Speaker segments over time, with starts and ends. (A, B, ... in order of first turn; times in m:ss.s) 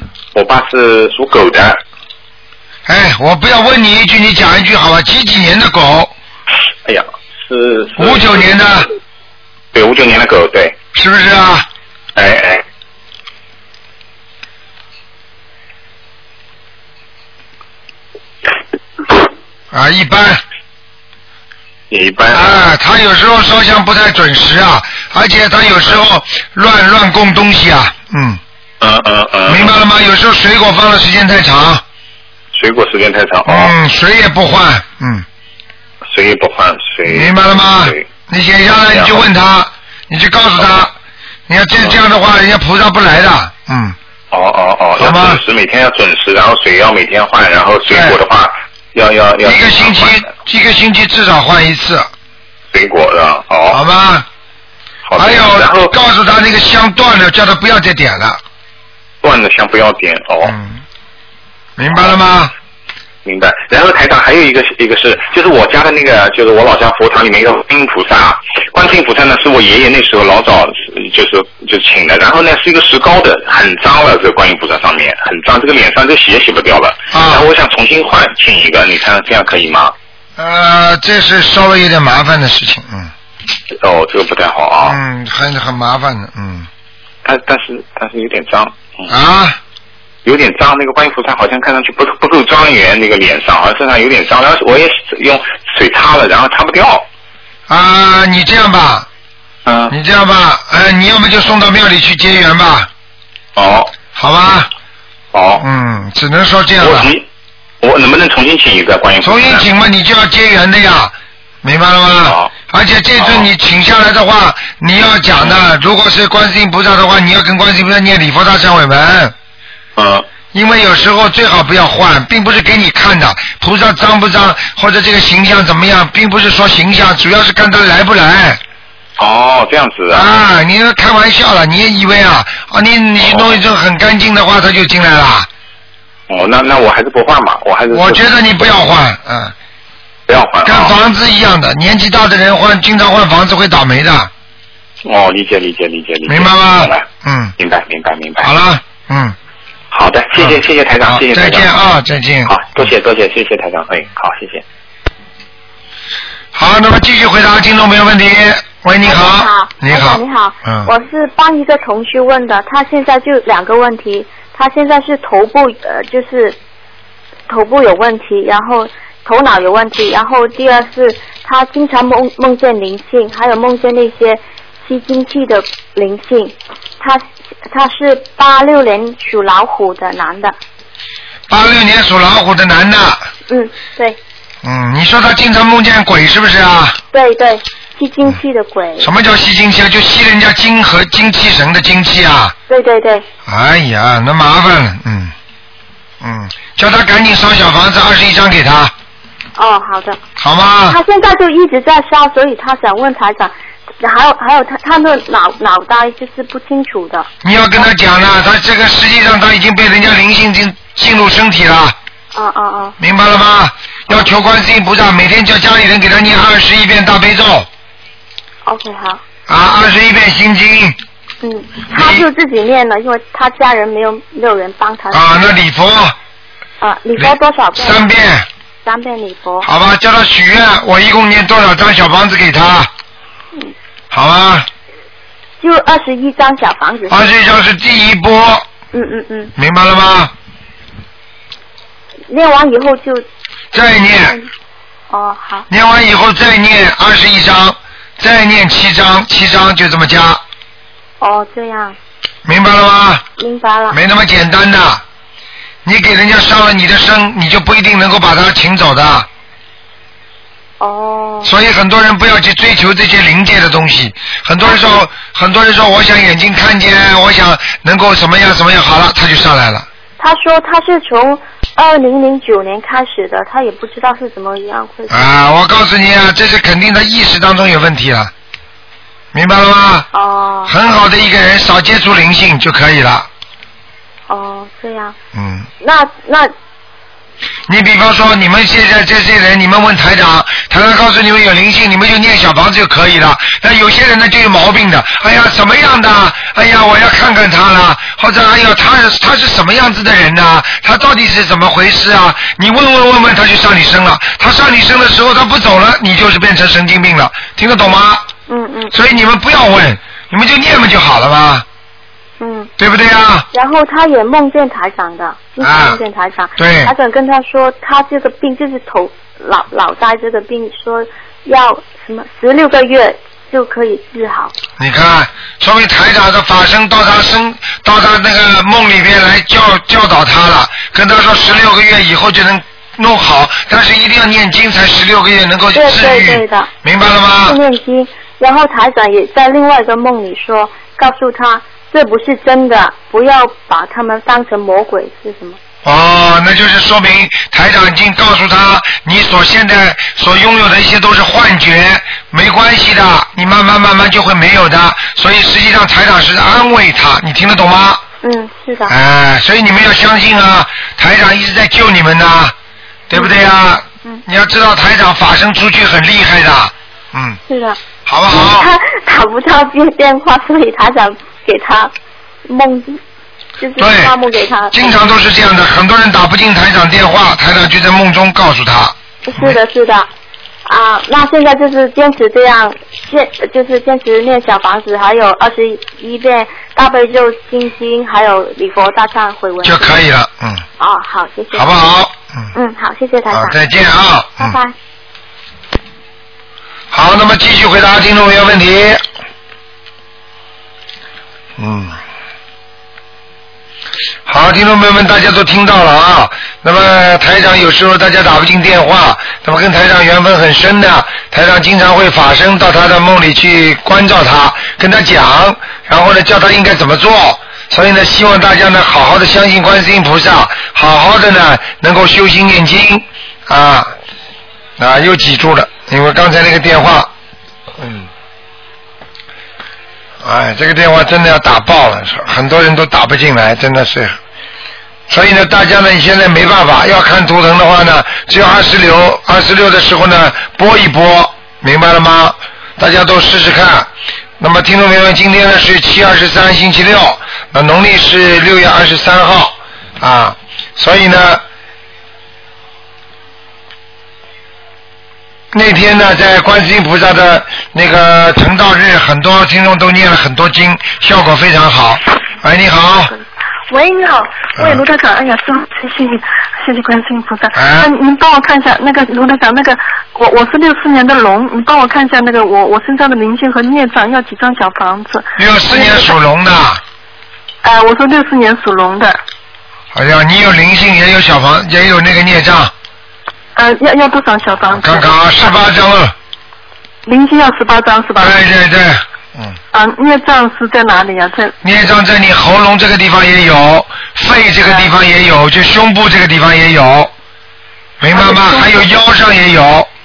0:00.3-0:01.8 A
0:02.8-0:06.1 B
0:06.8-0:08.6 A
0:08.0-0:08.9 B
0:09.7-0:10.8 A
0:10.9-0:11.6 B
0:12.1-0:12.6 A
0:19.7-0:20.4 B
0:21.9-0:22.6 A
0:22.3-0:28.4 B
0:28.8-0:29.8 A
0:29.5-0:31.8 B
0:32.5-0:33.7 A
0:33.4-0:35.2 B
0:36.1-0:38.1 A
0:37.1-0:40.9 B
0:38.9-0:39.2 A
0:41.5-0:44.0 B
0:44.3-0:50.3 A
0:45.0-0:45.4 B
0:47.9-0:48.2 B
0:49.4-0:52.1 B
0:52.7-0:53.8 A
0:53.7-0:54.2 B
0:55.1-0:55.9 A
0:55.2-0:58.4 B
0:59.2-1:00.5 A
1:00.4-1:00.8 B
1:01.8-1:02.5 B
1:03.2-1:19.9 A
1:17.1-1:17.5 B
1:20.4-1:23.1 B
1:23.8-1:25.0 A
1:24.8-1:26.7 B
1:27.2-1:29.1 A
1:29.1-1:29.6 B
1:30.2-1:37.0 A
1:37.7-1:39.1 B
1:39.6-1:39.9 A
1:39.9-1:42.9 B
1:43.6-1:43.9 A
1:44.1-1:44.7 B
1:45.3-1:45.6 A
1:45.6-1:47.1 B
1:46.8-1:47.2 A
1:47.8-1:49.6 A
1:49.2-1:59.3 B
1:52.2-1:52.5 A
1:53.2-1:53.5 A
2:00.0-2:00.2 A
2:00.5-2:08.6 B
2:09.2-2:10.3 A
2:10.1-2:15.5 B
2:13.2-2:13.6 A
2:16.3-2:18.3 A
2:17.9-2:19.5 B
2:20.3-2:20.9 A
2:20.6-2:24.3 B
2:25.0-2:27.0 A
2:26.3-2:27.5 B
2:27.6-2:28.5 A
2:28.4-2:29.3 B
2:29.9-2:31.7 A
2:30.4-2:32.5 B
2:32.5-2:34.6 A
2:36.5-2:40.9 B
2:39.0-2:46.6 C
2:47.5-3:00.5 C
3:01.5-3:03.2 B
3:03.5-3:04.2 C
3:04.6-3:07.0 B
3:07.1-3:09.1 C
3:09.0-3:12.5 B
3:12.7-3:13.2 C
3:13.4-3:15.3 B
3:16.2-3:18.9 B
3:19.6-3:20.2 C
3:20.4-3:21.0 B
3:20.9-3:27.3 C
3:27.4-3:31.9 B
3:32.3-3:33.0 C
3:33.0-3:37.7 B
3:38.6-3:39.2 C
3:39.5-3:41.0 B
3:41.4-3:45.5 C
3:41.9-3:42.2 B
3:45.1-3:46.2 B
3:46.8-3:48.0 C
3:47.2-3:48.5 B
3:48.8-3:49.7 C
3:49.6-3:52.9 B
3:54.1-3:54.7 B
3:55.6-3:57.3 C
3:57.1-3:58.6 B
3:58.9-3:59.5 C
3:59.6-4:00.3 B
4:02.3-4:03.2 C
4:03.7-4:04.4 B
4:05.1-4:05.7 C
4:05.7-4:10.4 B
4:11.2-4:12.0 C
4:12.4-4:13.2 B
4:13.4-4:14.0 C
4:13.9-4:15.0 B
4:15.8-4:19.3 B
4:20.8-4:21.5 C
4:21.4-4:29.9 B
4:24.6-4:25.0 C
4:30.2-4:35.2 C
4:35.1-4:38.3 B
4:39.3-4:40.1 B
4:40.1-4:40.7 C
4:40.7-4:43.3 B
4:44.3-4:45.1 C
4:45.3-4:45.7 B
4:45.8-4:46.5 C
4:47.7-5:08.2 B
5:08.5-5:08.9 C
5:08.9-5:11.6 B
5:12.4-5:12.7 C
5:12.8-5:13.4 B
5:13.5-5:24.5 C
5:15.6-5:16.0 B
5:16.6-5:16.9 B
5:24.8-5:37.6 B
5:35.7-5:36.7 C
5:37.4-5:45.6 C
5:45.8-5:58.0 B
5:58.2-5:58.9 C
5:58.9-6:02.5 B
6:03.1-6:07.4 B
6:03.1-6:03.4 C
6:07.5-6:11.9 C
6:08.0-6:08.7 B
6:12.4-6:13.0 C
6:13.6-6:15.0 C
6:13.8-6:14.1 B
6:14.7-6:19.6 B
6:19.2-6:20.1 C
6:20.6-6:30.0 C
6:29.6-6:30.6 B
6:30.8-6:31.9 C
6:31.5-6:32.5 B
6:32.5-6:33.6 C
6:33.3-6:34.6 B
6:34.4-6:34.7 C
6:36.9-6:39.0 B
6:41.6-6:42.0 B
6:44.2-7:03.9 B
7:04.8-7:07.1 B
7:07.8-7:08.1 B
7:10.2-7:14.2 B
7:15.1-7:23.9 B
7:24.4-7:31.4 B
7:35.5-7:43.1 B
7:43.7-7:56.1 D
7:47.5-7:47.9 B
7:55.4-7:56.8 B
7:57.6-7:59.2 D
7:59.9-8:02.7 B
8:03.5-8:05.5 D
8:04.7-8:06.1 B
8:07.0-8:08.4 D
8:08.2-8:09.6 B
8:09.7-8:11.5 D
8:11.6-8:17.1 B
8:18.0-8:19.9 B
8:18.0-8:18.8 D